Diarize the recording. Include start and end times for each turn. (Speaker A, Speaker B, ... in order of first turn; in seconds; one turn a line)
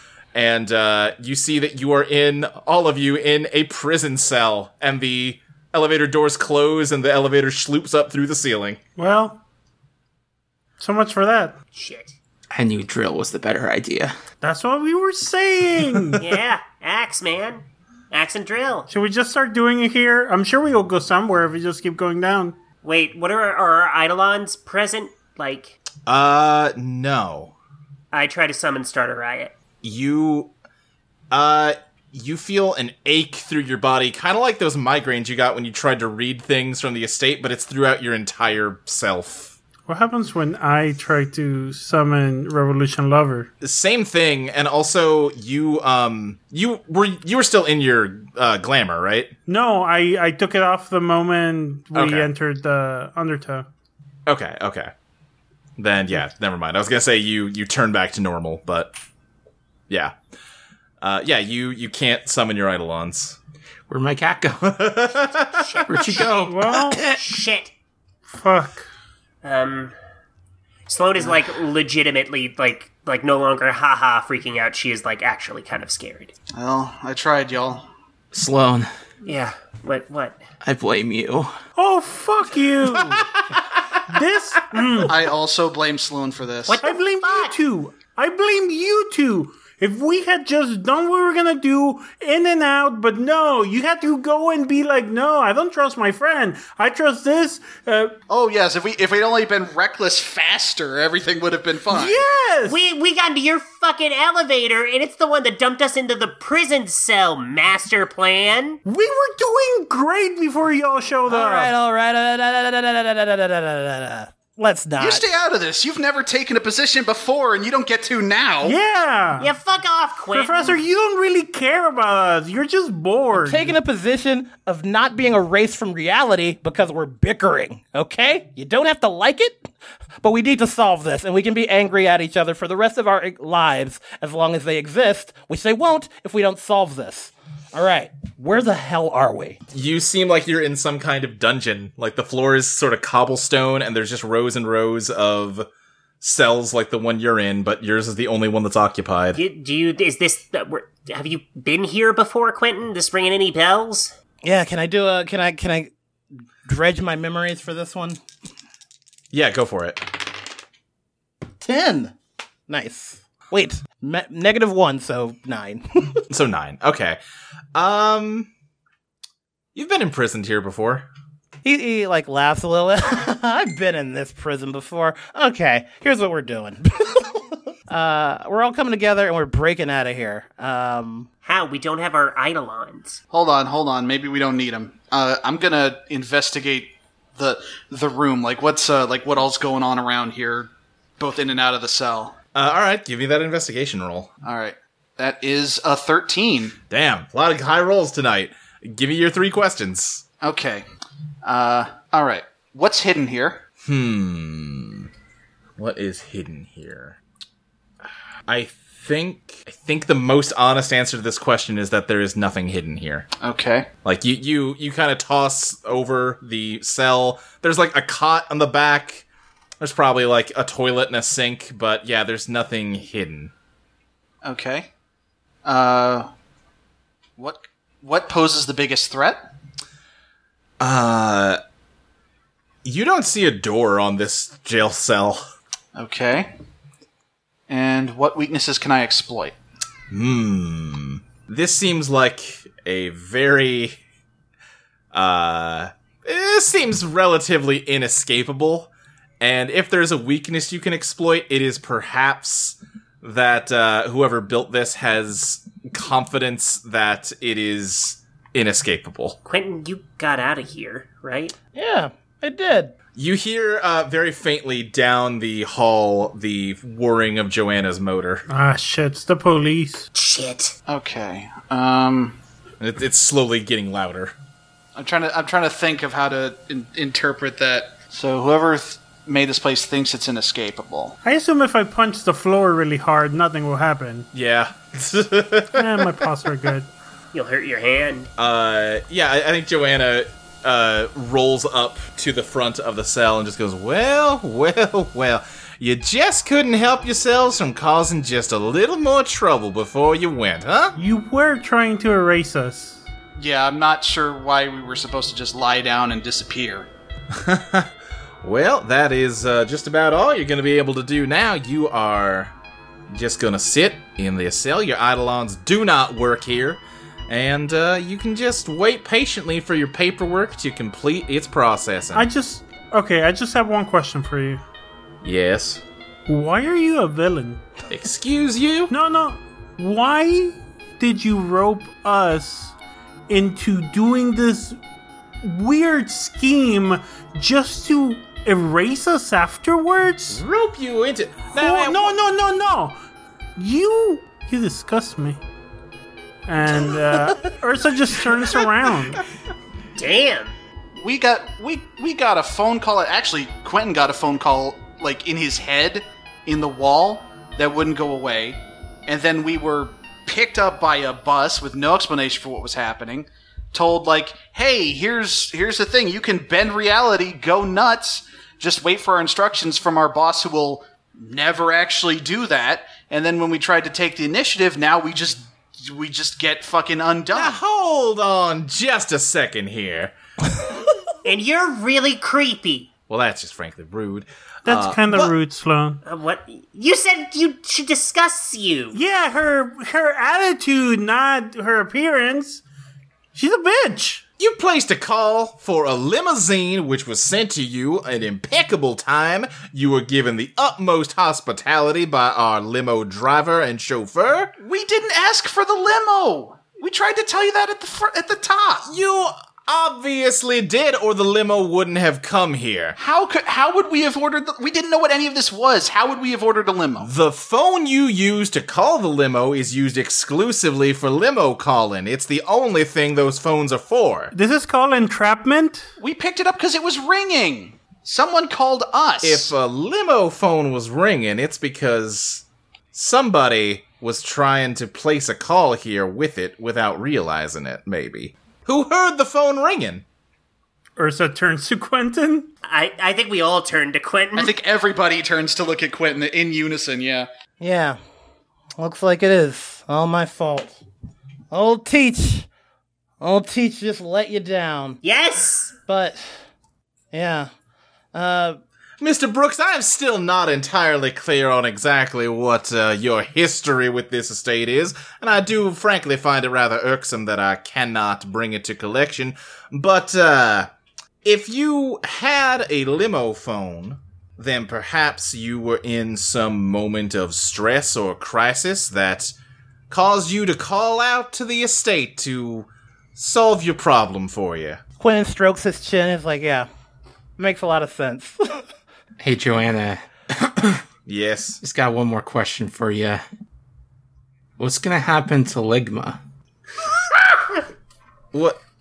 Speaker A: 0.3-8.8
Speaker B: 9.0-9.4
Speaker B: 10.8-11.6
Speaker C: 11.7-12.2
Speaker D: 12.5-14.2
Speaker B: 14.4-16.4
Speaker C: 16.2-18.9
Speaker B: 18.9-22.6
Speaker C: 22.8-25.8
Speaker A: 26.1-27.5
Speaker C: 28.1-29.5
Speaker A: 29.8-30.5
Speaker A: 31.3-39.5
Speaker B: 39.9-43.5
Speaker A: 43.6-49.3
Speaker B: 49.5-53.7
Speaker A: 51.9-52.3
Speaker A: 54.3-54.9
Speaker A: 55.8-58.9
Speaker A: 59.9-60.1
Speaker A: 61.0-63.4
Speaker D: 63.9-65.0
Speaker A: 64.7-66.2
Speaker C: 65.5-66.3
Speaker D: 65.8-67.2
Speaker B: 66.4-67.0
Speaker C: 67.1-67.7
Speaker B: 68.3-68.9
Speaker C: 69.4-69.9
Speaker C: 70.9-76.3
Speaker E: 76.5-77.9
Speaker D: 78.3-78.9
Speaker C: 79.2-80.4
Speaker D: 80.6-81.5
Speaker B: 81.8-83.3
Speaker B: 84.1-85.2
Speaker E: 85.1-86.8
Speaker C: 86.7-87.6
Speaker B: 86.8-98.2
Speaker E: 98.3-102.2
Speaker B: 101.9-102.8
Speaker C: 102.7-108.8
Speaker B: 108.9-111.7
Speaker F: 111.3-115.3
Speaker E: 115.0-118.8
Speaker B: 118.6-119.5
Speaker C: 119.4-120.8
Speaker B: 120.3-123.7
Speaker F: 123.3-139.6
Speaker A: 139.7-145.7
Speaker A: 146.2-149.4
Speaker C: 149.3-154.1
Speaker F: 154.4-155.9
Speaker F: 156.7-158.2
Speaker A: 159.3-160.1
Speaker F: 161.6-162.1
Speaker F: 162.7-166.2
Speaker A: 166.3-167.2
Speaker A: 167.8-168.5
Speaker A: 169.8-171.1
Speaker F: 171.6-181.3
Speaker C: 181.4-183.2
Speaker E: 183.3-192.4
Speaker A: 192.6-194.3
Speaker E: 194.4-196.8
Speaker A: 196.9-200.2
Speaker E: 200.4-200.8
Speaker E: 201.4-203.6
Speaker A: 203.8-205.1
Speaker A: 205.8-207.2
Speaker A: 208.5-213.3
Speaker E: 213.4-213.9
Speaker A: 214.1-219.3
Speaker A: 219.8-223.5
Speaker E: 224.4-224.9
Speaker E: 225.7-226.3
Speaker E: 227.4-229.4
Speaker A: 230.8-231.6
Speaker A: 232.8-235.4
Speaker E: 235.9-236.5
Speaker E: 237.7-239.6
Speaker A: 240.1-244.0
Speaker A: 245.1-259.4
Speaker C: 259.5-261.5
Speaker F: 261.7-262.9
Speaker A: 263.2-268.4
Speaker B: 268.5-270.1
Speaker C: 270.1-270.8
Speaker E: 270.9-272.4
Speaker A: 272.8-274.3
Speaker E: 275.0-281.2
Speaker B: 281.2-284.3
Speaker A: 284.3-286.2
Speaker B: 285.7-286.9
Speaker C: 287.3-288.3
Speaker A: 288.4-300.9
Speaker B: 300.9-303.0
Speaker E: 303.4-306.9
Speaker A: 307.3-307.9
Speaker A: 308.4-312.5
Speaker A: 313.1-322.3
Speaker B: 322.1-324.6
Speaker A: 325.2-325.8
Speaker B: 326.3-327.6
Speaker A: 327.9-328.9
Speaker B: 328.9-332.7
Speaker B: 333.3-334.8
Speaker B: 335.4-340.4
Speaker A: 340.3-342.1
Speaker B: 341.5-343.0
Speaker B: 343.6-345.4
Speaker B: 346.5-349.2
Speaker C: 350.0-350.6
Speaker E: 351.0-377.6
Speaker A: 377.3-380.1
Speaker C: 381.2-382.9
Speaker A: 383.1-385.3
Speaker B: 384.6-386.0
Speaker C: 386.1-389.0
Speaker B: 388.9-392.6
Speaker B: 393.3-394.2
Speaker A: 394.4-404.6
Speaker E: 404.6-408.9
Speaker A: 408.9-413.0
Speaker E: 413.0-417.1
Speaker A: 417.0-424.3
Speaker B: 424.3-425.9
Speaker E: 426.0-429.6
Speaker A: 429.2-440.0
Speaker B: 441.0-442.5
Speaker C: 442.6-444.5
Speaker E: 444.4-447.3
Speaker F: 447.6-448.0
Speaker F: 448.8-450.8
Speaker F: 451.5-452.5
Speaker F: 453.2-455.0
Speaker C: 455.0-455.8
Speaker F: 455.9-456.4
Speaker F: 457.1-457.5
Speaker F: 458.1-458.6
Speaker A: 459.0-470.7
Speaker A: 471.2-479.3
Speaker A: 479.9-484.8
Speaker F: 485.0-486.7
Speaker F: 487.4-488.7
Speaker D: 489.2-490.8
Speaker A: 491.1-491.6
Speaker D: 491.6-493.2
Speaker D: 494.6-496.2
Speaker A: 498.3-498.6